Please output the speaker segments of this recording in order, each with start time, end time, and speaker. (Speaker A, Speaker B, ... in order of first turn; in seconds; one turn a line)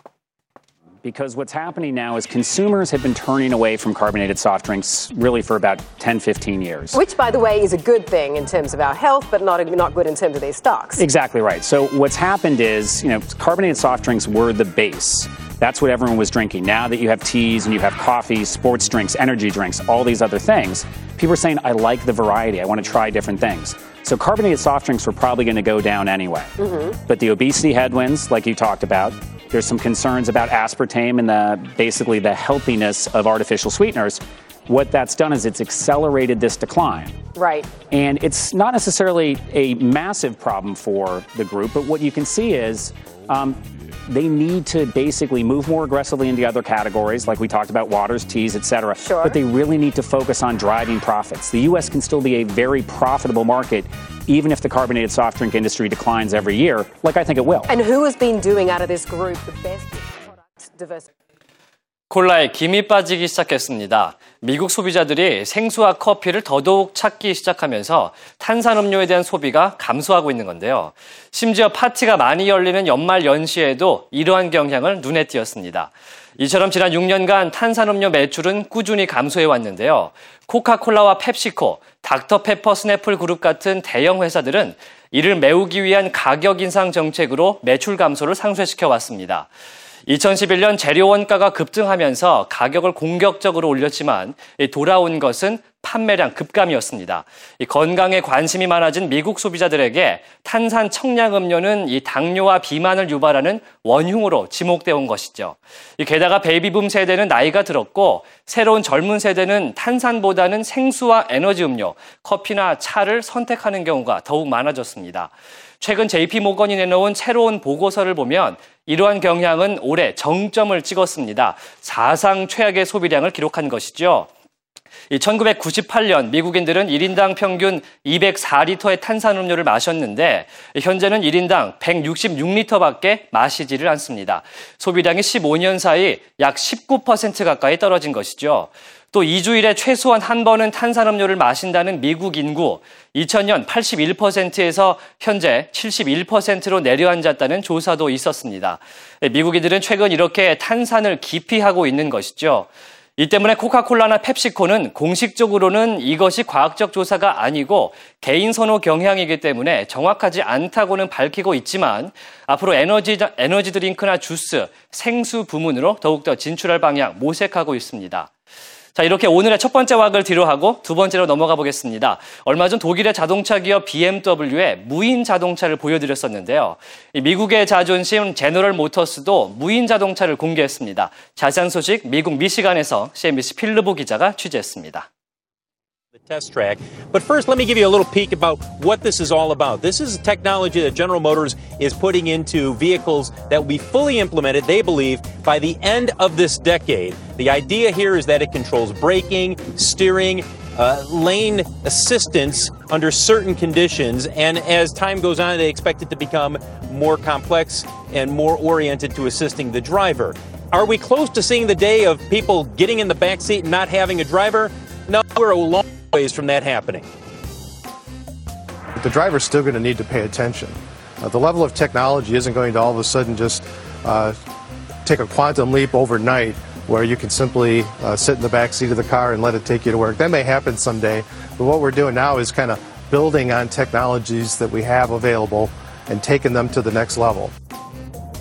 Speaker A: 1.0-7.0
Speaker B: 6.9-11.0
Speaker A: 11.0-37.2
Speaker B: 26.6-26.9
Speaker B: 37.4-37.8
Speaker A: 37.8-57.7
Speaker B: 49.0-49.4
Speaker B: 57.7-61.1
Speaker C: 62.1-89.5
Speaker C: 90.0-124.3
Speaker C: 125.1-168.3
Speaker C: 168.9-185.1
Speaker D: 186.2-217.1
Speaker E: 218.9-224.4
Speaker E: 225.0-237.5